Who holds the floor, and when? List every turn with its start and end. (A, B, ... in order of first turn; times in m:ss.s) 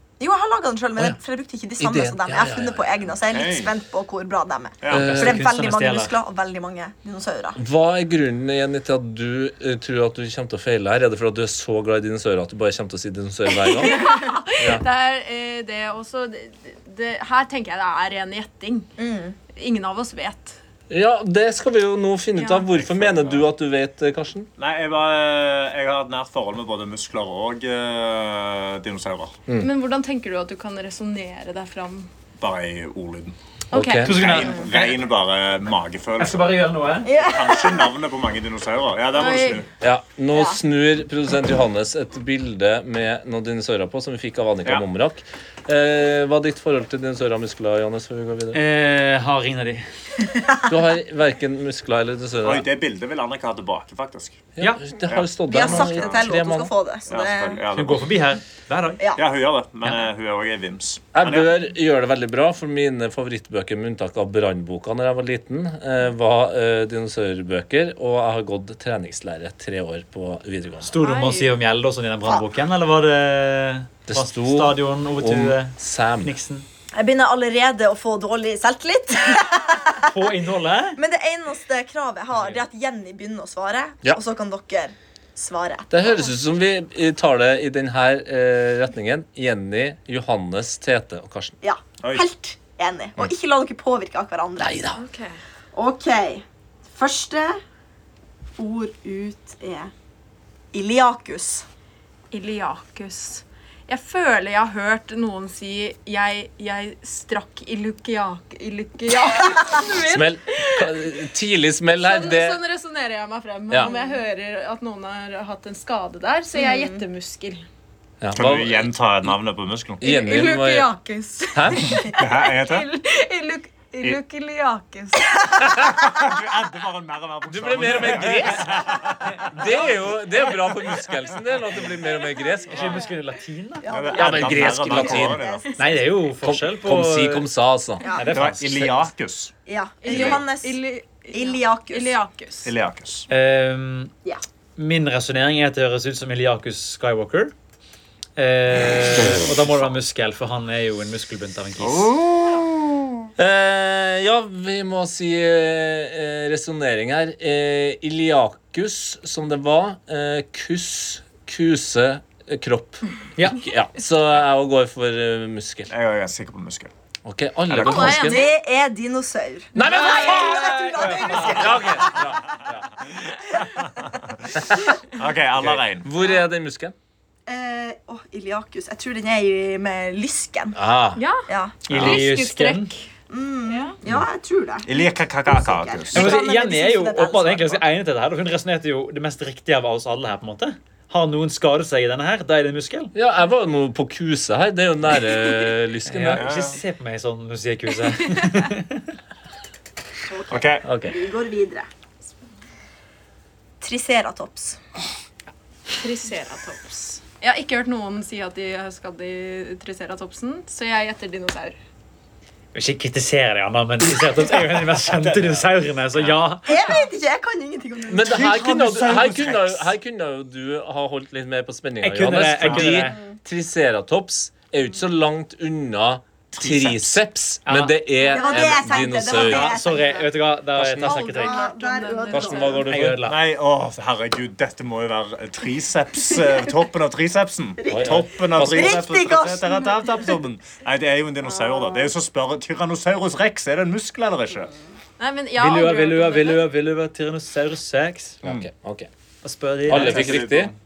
0:00.2-0:07.6 A
0:01.8-0:02.9 B
0:03.3-0:03.7 C
0:04.8-0:05.1 C
0:04.9-0:05.5 B
0:04.9-0:06.2 D
0:07.6-0:14.1 B
0:13.6-0:18.9 E
0:14.6-0:14.8 B
0:19.0-0:19.4 A
0:19.5-0:20.6 E
0:20.9-0:24.5 B
0:22.6-0:23.4 C
0:24.6-0:29.4 C
0:29.6-0:32.1 E
0:32.4-0:33.4 C
0:33.7-0:34.6 E
0:33.7-0:34.2 B
0:34.0-0:35.0 D
0:34.1-0:36.6 C
0:36.2-0:37.1 D
0:37.1-0:38.0 A
0:37.1-0:39.7 C
0:39.1-0:39.6 E
0:39.8-0:48.6 B
0:40.3-0:40.6 A
0:48.5-0:49.8 D
0:50.7-0:52.7 B
0:52.4-0:54.5 C
0:54.6-0:56.7 B
0:55.0-0:56.3 C
0:55.5-0:57.6 A
0:57.1-0:58.1 C
0:57.7-0:59.0 D
0:59.2-1:01.5 C
1:01.1-1:10.9 B
1:10.8-1:16.7 D
1:11.0-1:11.5 E
1:14.1-1:16.4 B
1:17.0-1:20.1 A
1:20.0-1:21.0 D
1:21.0-1:26.2 A
1:25.9-1:31.6 B
1:31.6-1:34.8 A
1:32.0-1:32.3 C
1:34.6-1:35.0 B
1:35.0-1:35.4 E
1:35.7-1:37.6 A
1:38.6-1:39.9 A
1:40.7-1:41.6 A
1:42.3-1:51.1 E
1:49.1-1:49.9 A
1:50.1-1:52.6 B
1:52.0-1:57.6 E
1:53.8-1:54.1 A
1:56.6-1:57.0 A
1:58.2-1:58.9 B
1:58.3-2:00.0 C
2:00.0-2:00.9 B
2:00.0-2:05.4 E
2:01.5-2:02.0 B
2:02.0-2:02.9 C
2:05.8-2:10.1 C
2:07.4-2:09.0 B
2:09.5-2:13.0 B
2:12.7-2:13.9 D
2:13.8-2:16.1 A
2:13.9-2:15.6 C
2:14.1-2:15.5 B
2:15.8-2:17.5 D
2:16.4-2:18.1 B
2:18.0-2:18.3 A
2:18.2-2:19.0 D
2:18.3-2:19.5 C
2:19.7-2:22.2 A
2:20.0-2:22.7 E
2:20.1-2:20.4 C
2:22.6-2:23.3 C
2:23.3-2:24.1 D
2:24.8-2:27.5 D
2:28.4-2:32.1 D
2:31.8-2:33.0 C
2:33.4-2:45.9 B
2:43.4-2:43.6 D
2:45.9-2:46.9 C
2:47.2-2:48.5 B
2:47.7-2:48.2 C
2:47.9-2:48.4 E
2:47.9-2:52.4 A
2:49.8-2:52.9 B
2:49.8-2:51.8 D
2:55.1-2:56.1 C
2:55.6-2:57.0 B
2:57.5-3:00.8 A
3:00.7-3:01.2 B
3:01.2-3:03.1 E
3:01.5-3:01.8 A
3:01.9-3:02.9 D
3:03.3-3:07.8 A
3:03.7-3:03.9 E
3:04.8-3:06.4 C
3:06.1-3:13.1 D
3:13.1-3:16.5 B
3:16.0-3:19.1 D
3:16.4-3:16.8 C
3:20.3-3:21.9 A
3:20.5-3:20.9 C
3:20.8-3:21.2 D
3:23.8-3:24.8 A
3:26.0-3:31.8 E
3:32.7-3:37.0 D
3:35.1-3:36.3 C
3:36.7-3:38.6 A
3:38.1-3:49.8 B
3:38.2-3:39.9 C
3:42.0-3:43.2 D
3:42.6-3:43.1 C
3:43.1-3:43.4 A
3:46.5-3:47.2 C
3:47.7-3:48.0 D
3:48.3-3:50.3 A
3:48.4-3:48.8 E
3:49.3-3:51.6 D
3:50.8-3:51.2 B
3:51.0-3:52.8 E
3:51.1-3:52.9 A
3:52.3-3:53.2 B
3:52.9-3:53.4 D
3:53.2-4:04.7 C
3:57.8-4:00.3 A
3:57.9-3:59.0 B
4:01.4-4:02.1 A
4:05.2-4:06.7 E
4:05.6-4:08.4 D
4:08.4-4:09.1 B
4:09.4-4:10.4 D
4:09.9-4:10.7 B
4:09.9-4:10.8 C